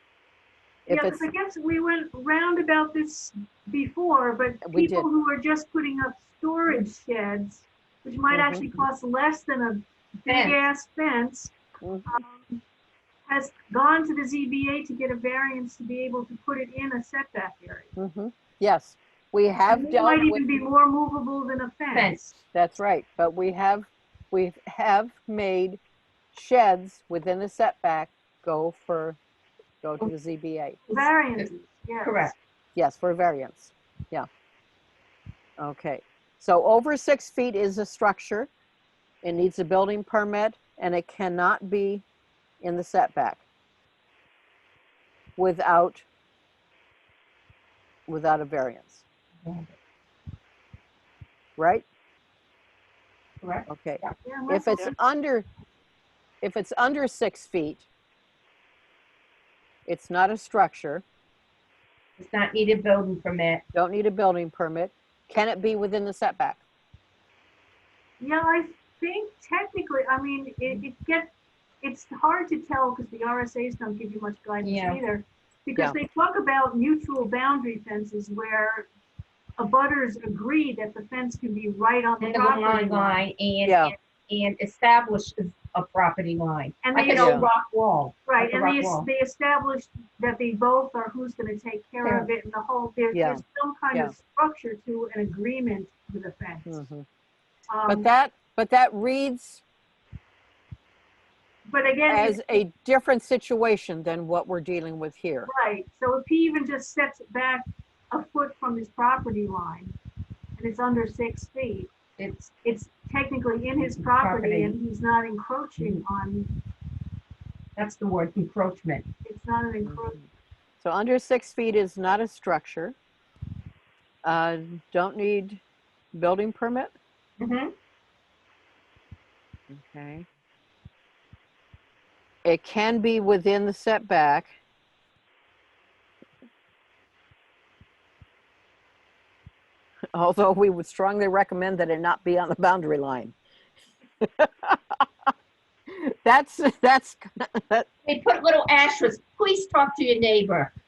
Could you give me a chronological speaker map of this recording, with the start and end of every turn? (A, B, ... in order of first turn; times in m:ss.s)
0:00.9-0:01.3 A
0:00.9-0:11.5 B
0:04.6-0:05.1 A
0:08.3-0:08.8 A
0:10.3-0:10.6 C
0:11.8-0:12.1 A
0:12.1-0:12.6 B
0:13.3-0:17.9 B
0:18.0-0:20.4 A
0:19.6-0:22.2 B
0:21.9-0:22.4 C
0:22.5-0:25.8 A
0:26.3-0:29.2 A
0:29.8-0:30.8 A
0:30.9-0:32.4 B
0:32.0-0:32.3 C
0:32.8-0:34.3 A
0:35.6-0:38.5 A
0:39.2-0:42.0 A
0:42.6-0:43.4 A
0:45.4-0:46.0 A
0:48.1-0:49.0 A
0:49.4-0:49.7 C
0:51.6-0:51.8 A
0:53.4-0:54.2 C
0:53.7-0:55.5 A
0:54.2-0:54.9 B
0:56.4-0:57.9 A
0:59.9-1:01.0 A
1:02.2-1:03.6 C
1:03.7-1:06.6 A
1:08.2-1:11.3 B
1:11.8-1:18.9 B
1:14.6-1:15.0 C
1:19.6-1:23.2 B
1:22.2-1:29.1 C
1:23.6-1:23.9 A
1:26.8-1:27.5 B
1:27.1-1:27.5 A
1:28.3-1:36.8 B
1:32.0-1:32.3 C
1:33.1-1:34.1 A
1:36.7-1:37.0 A
1:37.7-1:38.1 B
1:37.9-1:39.6 A
1:41.7-1:42.6 B
1:42.1-1:45.5 A
1:45.5-1:50.0 B
1:50.6-1:51.9 B
1:52.2-1:52.5 C
1:52.6-1:56.6 B
1:53.8-1:54.8 C
1:55.8-1:56.0 C
1:57.8-1:59.1 C
1:59.2-2:00.3 B
2:00.8-2:03.0 A
2:04.2-2:05.6 A
2:06.1-2:06.9 A
2:07.4-2:07.7 C
2:09.7-2:10.3 A
2:12.4-2:14.5 A
2:20.1-2:23.4 A
2:24.2-2:25.0 A
2:25.9-2:27.9 A
2:28.1-2:30.7 C